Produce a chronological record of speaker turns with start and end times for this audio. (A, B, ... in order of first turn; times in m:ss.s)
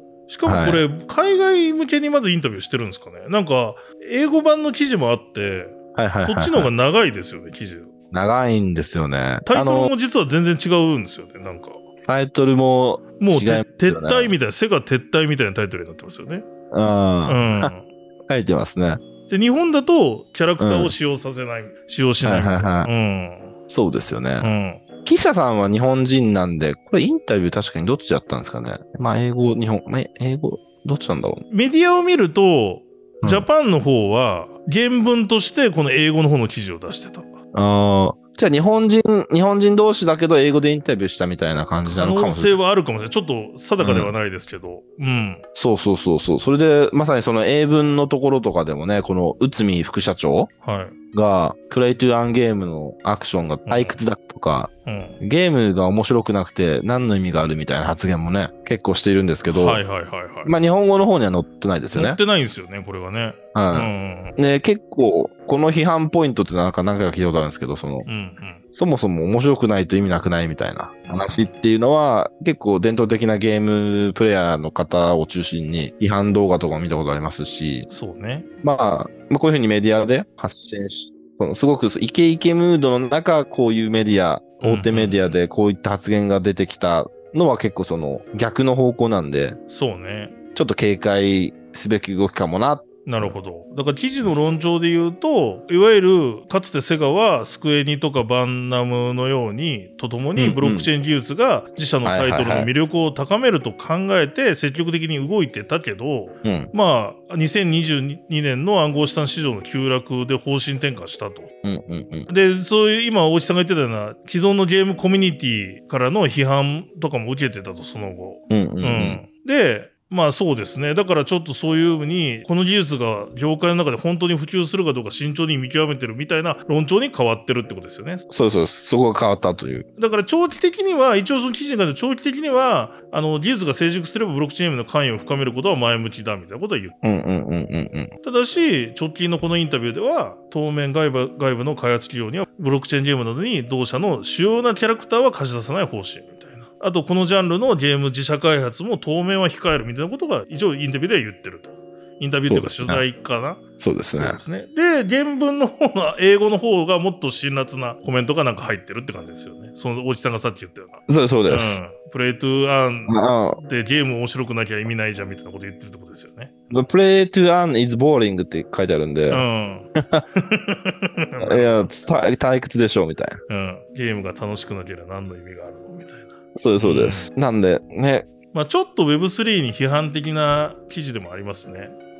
0:00.3-0:07.9 A
0:00.4-0:00.8 B
0:06.0-0:06.7 B
0:08.1-0:09.9 B
0:09.5-0:11.8 A
0:12.0-0:14.3 B
0:13.2-0:16.4 A
0:16.7-0:17.7 B
0:17.3-0:17.9 A
0:18.3-0:19.0 B
0:19.3-0:23.5 A
0:20.6-0:20.9 B
0:22.2-0:22.9 B
0:23.7-0:24.5 B
0:24.4-0:24.8 A
0:25.0-0:31.4 B
0:31.5-0:37.3 A
0:33.2-0:33.5 B
0:37.5-0:42.6 B
0:41.8-0:45.4 A
0:43.8-0:44.1 B
0:45.5-0:50.5 B
0:50.6-0:50.9 A
0:51.1-0:59.8 B
0:53.6-0:54.0 A
0:54.8-0:55.2 A
0:59.5-1:00.5 A
1:00.4-1:02.2 B
1:01.9-1:04.4 A
1:03.5-1:08.1 B
1:08.0-1:08.6 A
1:08.7-1:17.9 B
1:11.0-1:11.5 A
1:17.9-1:18.4 A
1:18.6-1:29.6 B
1:24.6-1:25.4 A
1:29.7-1:30.3 A
1:30.5-1:33.3 B
1:33.0-1:51.5 A
1:40.4-1:40.9 B
1:42.0-1:42.7 B
1:46.4-1:46.7 B
1:51.6-1:52.3 B
1:52.3-2:08.2 A
1:58.5-1:59.2 B
2:08.3-2:09.8 B
2:10.0-2:16.9 A
2:17.0-2:18.1 B
2:18.2-2:33.6 A
2:32.4-2:33.0 B
2:33.8-2:34.4 B
2:34.1-2:46.5 A
2:41.1-2:41.8 B
2:43.1-2:43.6 B
2:46.7-2:49.4 B
2:49.3-2:51.9 A
2:50.0-2:50.2 B
2:51.4-2:53.4 B
2:53.5-2:57.3 A
2:56.6-2:58.3 B
2:58.5-3:01.9 A